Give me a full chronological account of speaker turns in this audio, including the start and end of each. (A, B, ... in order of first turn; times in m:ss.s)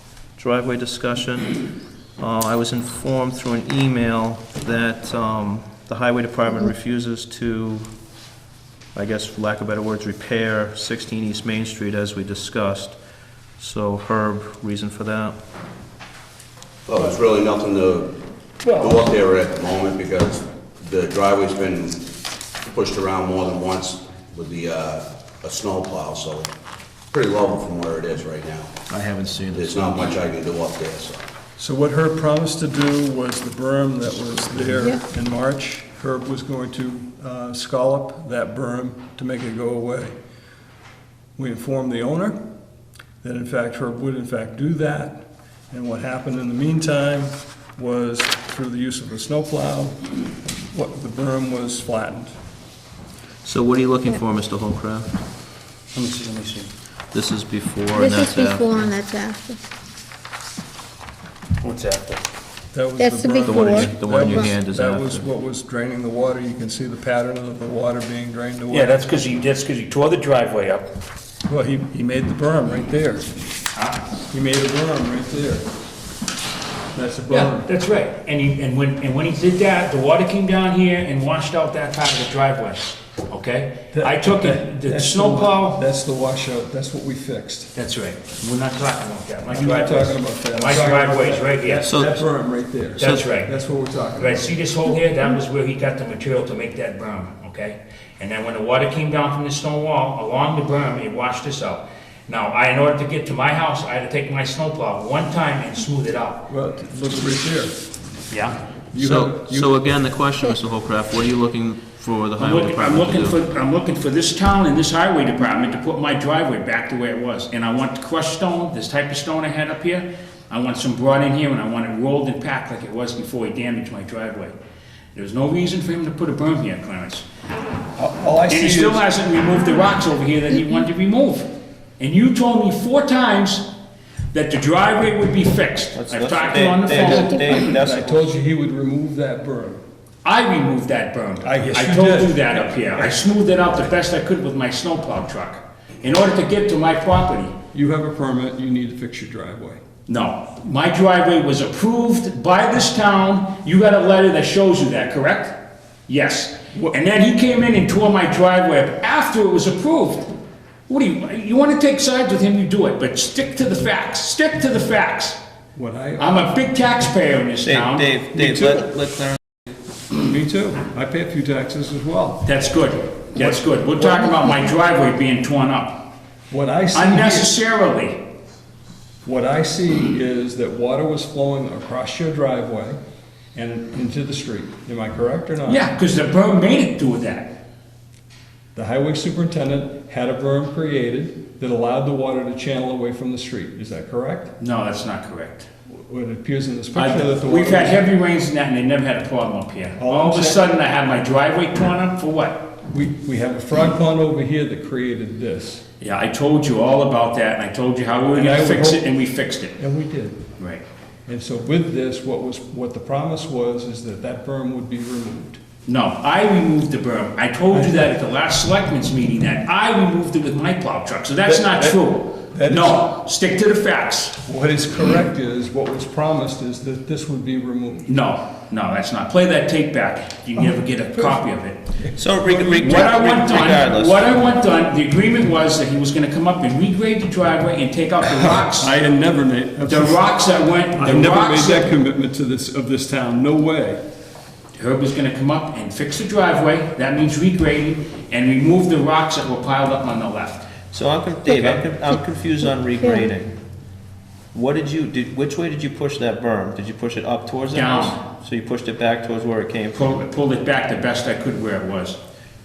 0:00.4-0:01.6 A
0:02.2-0:07.9 A
0:09.0-0:13.0 A
0:13.6-0:15.4 A
0:16.9-0:18.2 B
0:18.7-0:19.0 C
0:18.7-0:22.1 B
0:22.6-0:26.5 B
0:27.1-0:28.8 B
0:28.9-0:30.2 A
0:29.5-0:31.2 B
0:31.6-0:40.1 D
0:41.4-0:42.4 D
0:43.2-0:45.2 D
0:45.7-0:50.0 D
0:50.5-0:52.3 D
0:53.4-0:55.1 A
0:55.9-0:56.7 C
0:57.1-0:58.7 A
0:58.0-0:59.6 E
1:01.6-1:02.2 C
1:02.7-1:09.0 D
1:03.0-1:04.5 E
1:03.5-1:05.3 A
1:08.7-1:10.8 C
1:11.5-1:13.3 D
1:13.8-1:14.0 C
1:14.3-1:15.6 D
1:16.9-1:17.7 D
1:17.3-1:25.8 C
1:23.9-1:27.7 D
1:27.8-1:32.1 C
1:29.5-1:34.6 D
1:31.9-1:32.2 A
1:33.0-1:33.5 C
1:34.2-1:46.5 C
1:46.5-1:47.8 D
1:48.3-1:48.6 C
1:48.9-1:49.8 D
1:49.0-1:53.4 A
1:52.4-2:04.6 C
2:05.2-2:07.2 C
2:08.0-2:09.1 D
2:08.5-2:13.7 C
2:14.3-2:17.7 C
2:16.0-2:18.3 A
2:17.6-2:19.8 D
2:20.2-2:27.5 C
2:21.4-2:23.2 D
2:27.7-2:29.8 D
2:30.1-2:40.3 C
2:40.9-2:45.4 C
2:45.8-2:46.3 D
2:46.2-2:48.1 C
2:47.6-2:49.4 A
2:48.3-2:48.8 D
2:50.2-2:52.5 D
2:52.4-2:56.1 C
2:53.4-2:54.3 D
2:56.5-2:57.5 D
2:56.9-2:58.3 C
2:59.2-3:03.0 D
3:03.6-3:05.8 D
3:05.7-3:07.6 C
3:08.8-3:14.5 D
3:14.6-3:15.7 C
3:16.1-3:18.0 D
3:16.9-3:22.7 C
3:20.0-3:20.6 D
3:22.9-3:25.8 D
3:26.0-3:29.8 C
3:28.3-3:29.1 D
3:29.8-3:30.4 D
3:30.6-3:30.8 C
3:31.3-3:35.6 D
3:35.9-3:44.4 C
3:37.7-3:38.1 D
3:41.4-3:43.1 D
3:44.5-3:48.1 D
3:48.1-3:51.8 C
3:52.0-3:53.0 D
3:52.2-3:54.3 A
3:52.5-3:59.0 C
3:58.2-4:00.2 D
3:59.8-4:01.9 C
4:01.0-4:04.0 D
4:04.8-4:10.7 C
4:10.9-4:13.5 A
4:13.0-4:13.3 E
4:14.5-4:20.2 A
4:17.7-4:18.2 C
4:19.9-4:22.2 C